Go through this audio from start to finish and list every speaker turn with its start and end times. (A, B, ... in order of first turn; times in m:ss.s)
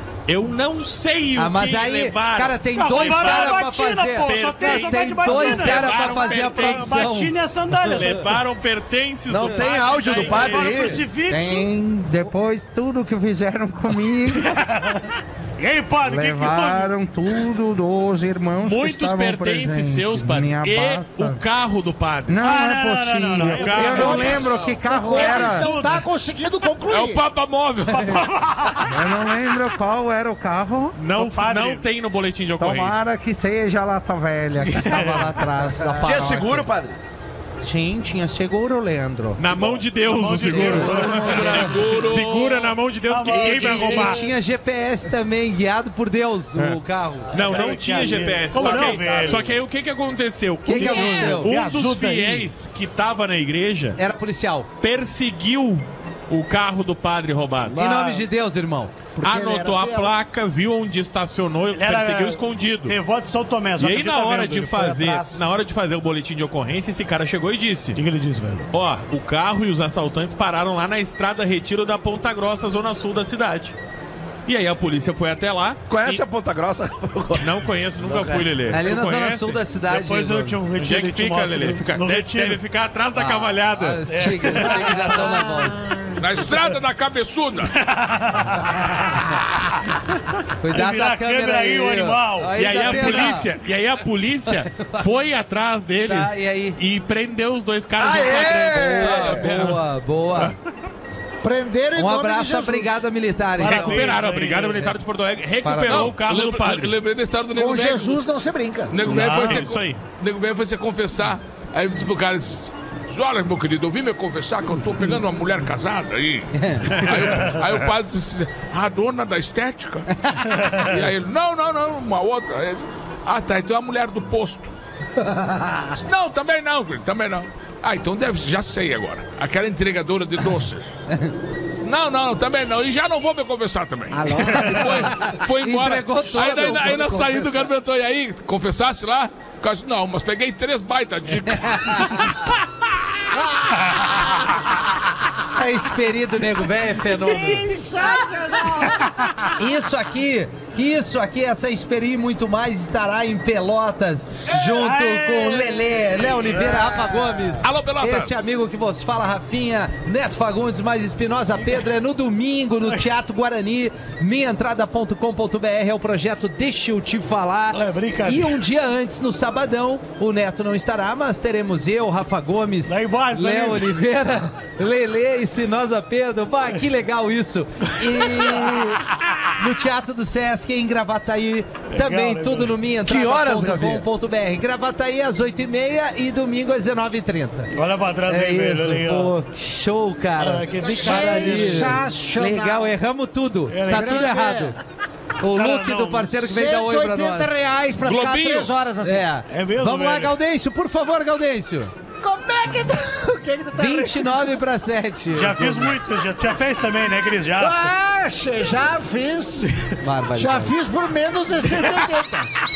0:00.3-0:07.1 A
0:01.4-0:07.3 B
0:02.7-0:08.4 C
0:07.8-0:08.1 B
0:07.9-0:11.0 A
0:09.3-0:11.0 D
0:10.0-0:11.7 C
0:11.3-0:14.6 B
0:14.4-0:16.9 C
0:16.1-0:21.4 B
0:18.6-0:22.4 A
0:22.3-0:25.7 B
0:22.4-0:26.0 C
0:23.4-0:24.4 A
0:23.8-0:27.2 E
0:24.3-0:24.8 F
0:26.9-0:28.3 F
0:27.9-0:28.9 C
0:28.8-0:31.0 B
0:31.0-0:33.0 A
0:31.1-0:31.9 C
0:32.6-0:36.7 B
0:34.6-0:35.5 C
0:36.0-0:37.0 D
0:37.6-0:39.5 B
0:39.4-0:44.2 A
0:39.5-0:41.9 C
0:40.1-0:41.8 B
0:41.1-0:42.8 F
0:43.1-0:44.3 C
0:43.3-0:47.4 B
0:46.6-0:54.0 A
0:47.3-0:49.6 C
0:48.6-0:48.9 B
0:50.6-0:51.5 B
0:50.8-0:51.4 E
0:50.8-0:52.5 C
0:54.0-0:54.7 B
0:54.8-0:58.1 A
0:57.7-0:58.9 B
0:59.2-1:00.2 E
0:59.2-1:03.0 A
1:01.7-1:05.4 C
1:03.8-1:08.0 A
1:08.0-1:08.7 C
1:08.7-1:13.8 A
1:14.5-1:15.8 A
1:15.9-1:18.5 D
1:17.4-1:19.7 A
1:18.7-1:20.6 B
1:19.8-1:22.6 C
1:20.8-1:24.1 A
1:23.2-1:25.8 B
1:24.1-1:25.2 C
1:25.1-1:26.2 E
1:26.2-1:27.8 F
1:27.8-1:28.8 C
1:30.6-1:33.5 B
1:30.7-1:33.4 C
1:32.5-1:39.8 A
1:34.5-1:35.1 B
1:36.0-1:36.8 B
1:38.0-1:39.4 D
1:38.8-1:39.8 F
1:39.2-1:40.5 B
1:41.4-1:43.0 E
1:42.0-1:44.2 B
1:43.6-1:44.9 C
1:43.6-1:46.9 A
1:45.6-1:46.2 B
1:45.9-1:48.2 F
1:47.6-1:49.0 E
1:48.9-2:04.7 F
1:49.0-1:50.0 A
1:49.3-1:49.6 C
1:56.5-1:57.0 B
2:05.2-2:06.0 E
2:06.0-2:10.9 F
2:11.8-2:22.4 F
2:14.1-2:15.4 E
2:15.6-2:17.1 B
2:16.3-2:17.7 E
2:21.5-2:22.3 B
2:23.5-2:24.2 E
2:25.5-2:27.7 B
2:27.1-2:29.3 E
2:29.5-3:07.7 B
2:34.5-2:36.5 C
2:36.5-2:37.6 E
2:37.6-2:38.5 F
2:47.7-2:48.6 C
2:52.9-2:54.0 C
3:01.9-3:02.8 C
3:03.0-3:04.1 D
3:07.7-3:09.4 C
3:08.3-3:14.8 B
3:10.4-3:12.0 C
3:10.8-3:12.9 E
3:13.7-3:14.4 C
3:13.9-3:14.8 E
3:15.4-3:17.5 B
3:15.5-3:16.4 C
3:16.4-3:19.3 E
3:18.0-3:18.7 F
3:19.0-3:21.9 B
3:19.5-3:20.4 C
3:22.2-3:24.6 E
3:23.8-3:26.0 B
3:25.3-3:27.9 C
3:27.6-3:29.8 E
3:30.0-3:30.7 B
3:30.4-3:32.5 E